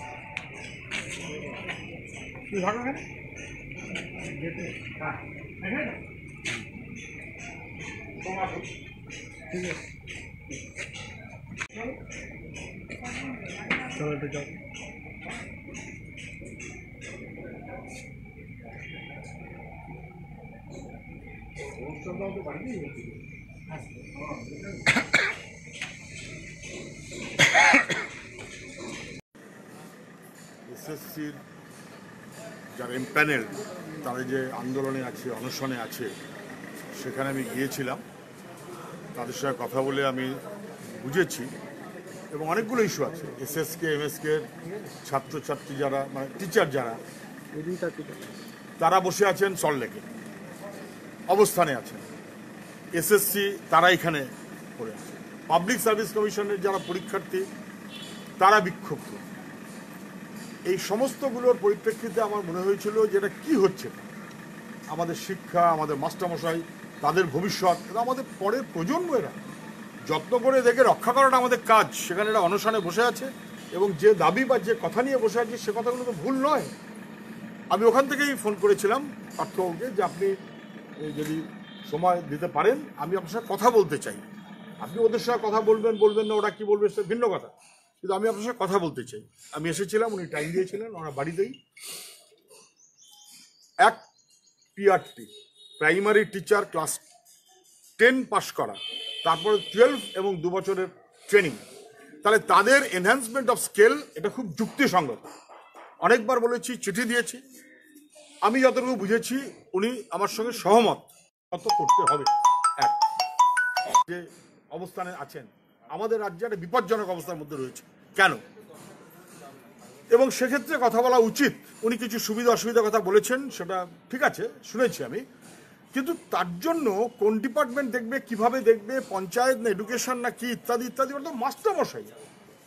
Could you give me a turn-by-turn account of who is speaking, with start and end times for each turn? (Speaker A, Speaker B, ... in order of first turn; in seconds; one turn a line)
Speaker A: 2.5-3.0
Speaker B: 8.2-8.6
Speaker A: 13.8-14.6
Speaker A: 21.8-23.2
Speaker A: 24.0-24.8
Speaker B: 30.7-31.4
Speaker B: 32.7-36.1
Speaker B: 36.9-38.0
Speaker B: 39.1-40.4
Speaker B: 40.9-41.5
Speaker B: 42.3-47.0
Speaker A: 47.5-48.3
Speaker B: 48.8-50.0
Speaker B: 51.3-52.0
Speaker B: 52.9-57.4
Speaker B: 58.4-59.2
Speaker B: 60.7-64.1
Speaker B: 64.9-69.3
Speaker B: 70.1-76.7
Speaker B: 77.7-80.3
Speaker B: 81.0-84.2
Speaker B: 84.8-91.5
Speaker B: 94.8-97.0
Speaker B: 98.0-101.6
Speaker B: 102.2-105.3
Speaker B: 106.0-107.4
Speaker B: 108.4-112.3
Speaker B: 114.0-118.4
Speaker B: 120.1-125.2
Speaker B: 125.9-132.1